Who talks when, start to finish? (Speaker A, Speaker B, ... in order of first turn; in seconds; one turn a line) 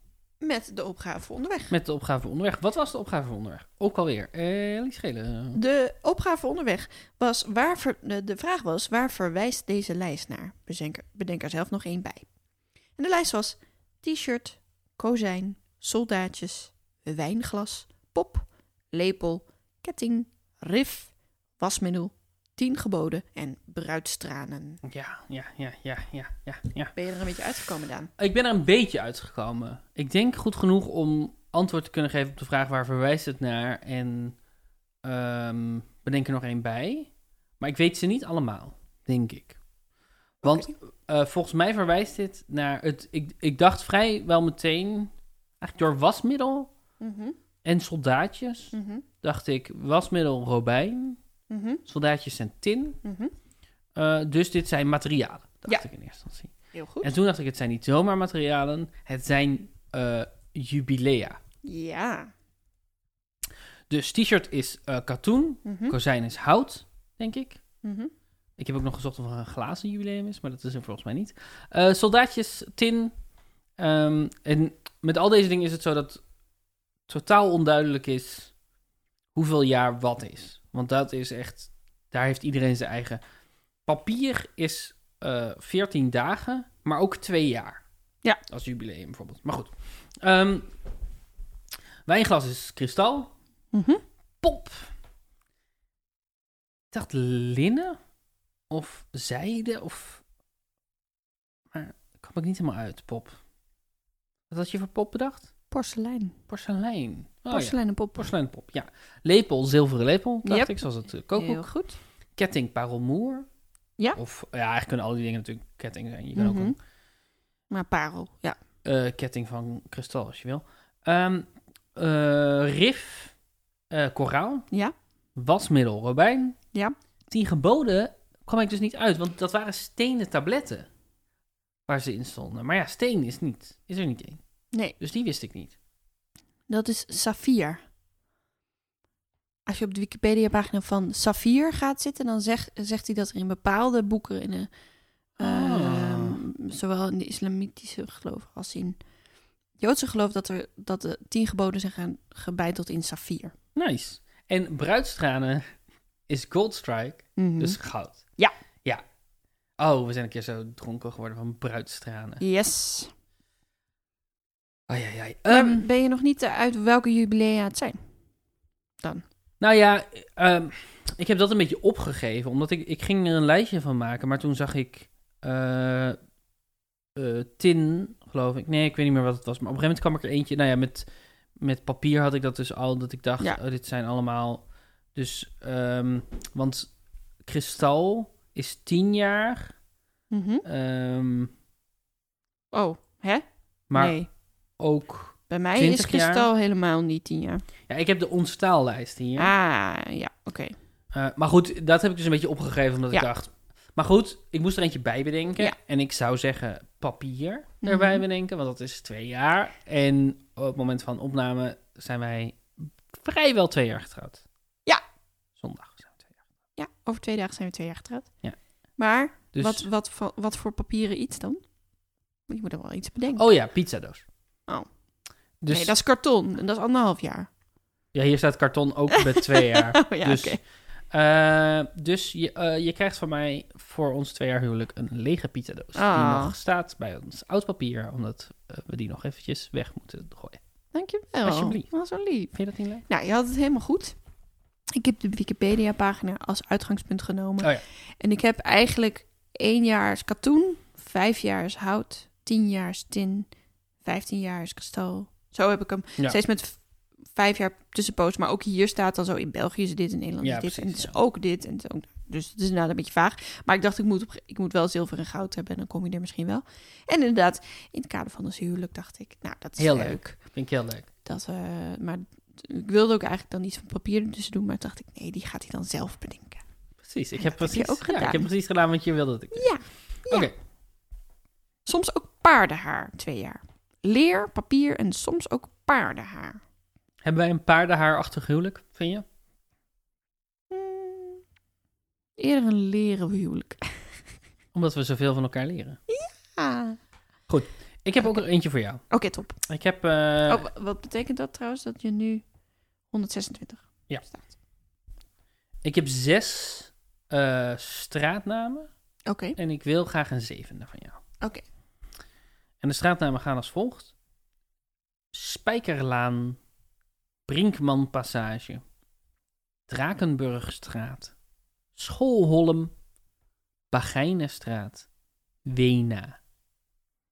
Speaker A: 0.4-1.7
Speaker B: 1.7-5.6
Speaker A: 5.5-12.3
Speaker A: 12.9-24.8
Speaker B: 24.8-26.9
Speaker A: 26.9-28.1
Speaker B: 28.2-34.4
Speaker B: 35.0-39.6
Speaker B: 40.4-46.7
Speaker A: 40.4-40.7
Speaker A: 47.0-47.4
Speaker B: 47.6-51.2
Speaker A: 48.7-49.0
Speaker A: 51.5-51.8
Speaker B: 51.9-53.0
Speaker A: 53.0-53.3
Speaker B: 53.9-61.4
Speaker A: 56.7-57.1
Speaker A: 61.6-62.3
Speaker B: 63.9-67.6
Speaker A: 65.6-65.9
Speaker A: 67.8-68.1
Speaker B: 68.6-73.1
Speaker B: 73.8-76.2
Speaker B: 77.1-78.5
Speaker B: 79.3-83.2
Speaker B: 83.8-87.8
Speaker B: 88.5-90.7
Speaker B: 92.1-93.3
Speaker A: 93.7-94.0
Speaker B: 94.4-94.9
Speaker B: 96.9-98.0
Speaker B: 98.7-100.2
Speaker B: 101.7-103.4
Speaker B: 104.5-105.5
Speaker A: 105.7-106.4
Speaker B: 106.5-111.7
Speaker A: 107.5-108.3
Speaker A: 110.4-112.0
Speaker B: 112.3-113.5
Speaker B: 114.2-116.8
Speaker A: 116.3-116.8
Speaker A: 117.7-118.6
Speaker B: 118.8-123.3
Speaker B: 123.9-124.7
Speaker B: 125.3-126.5
Speaker B: 127.3-130.9
Speaker B: 131.9-134.4
Speaker B: 135.0-135.7
Speaker A: 136.7-137.8
Speaker A: 139.7-144.7
Speaker A: 145.4-149.0
Speaker B: 145.4-146.4
Speaker A: 149.8-153.5
Speaker B: 153.7-155.6
Speaker B: 156.3-158.2
Speaker A: 157.3-157.8
Speaker B: 159.8-162.4
Speaker A: 162.4-163.1
Speaker B: 164.9-165.9
Speaker A: 165.5-168.0
Speaker B: 169.6-176.2
Speaker B: 177.1-181.1
Speaker B: 181.6-184.6
Speaker B: 185.1-186.9
Speaker B: 187.4-189.7
Speaker A: 190.3-190.6
Speaker B: 190.6-191.5
Speaker A: 192.7-194.3
Speaker B: 193.9-194.2
Speaker B: 194.8-196.5
Speaker A: 195.5-197.6
Speaker B: 197.9-199.5
Speaker A: 199.4-200.7
Speaker B: 201.1-214.4
Speaker A: 207.8-208.2
Speaker B: 215.6-216.3
Speaker A: 216.8-218.3
Speaker A: 219.0-221.6
Speaker B: 219.5-219.8
Speaker A: 222.5-223.4
Speaker B: 223.3-224.2
Speaker B: 225.6-225.9
Speaker A: 225.7-227.5
Speaker B: 228.1-230.6
Speaker A: 229.1-230.6
Speaker B: 231.1-240.6
Speaker A: 235.9-236.5
Speaker A: 240.9-242.5
Speaker B: 241.4-241.9
Speaker B: 242.5-243.0
Speaker A: 243.1-244.1
Speaker A: 244.9-253.5
Speaker A: 254.0-256.8
Speaker A: 257.3-270.4
Speaker B: 260.4-261.1
Speaker B: 269.8-271.1
Speaker A: 271.2-276.6
Speaker B: 277.0-279.7
Speaker A: 277.4-278.5
Speaker A: 279.5-280.5
Speaker B: 280.3-280.5
Speaker A: 281.9-286.6
Speaker B: 287.2-289.2
Speaker A: 290.7-291.4
Speaker A: 292.4-293.9
Speaker B: 294.7-296.0
Speaker A: 296.1-297.0
Speaker B: 297.5-299.0
Speaker A: 299.1-299.6
Speaker B: 299.7-300.6
Speaker A: 300.5-302.4
Speaker A: 303.1-304.4
Speaker B: 305.8-308.9
Speaker A: 309.3-309.6
Speaker B: 309.6-311.2
Speaker B: 312.8-314.1
Speaker B: 315.3-316.6
Speaker B: 317.5-318.8
Speaker B: 319.9-321.3
Speaker B: 321.9-322.9
Speaker B: 323.9-325.1
Speaker B: 325.6-326.4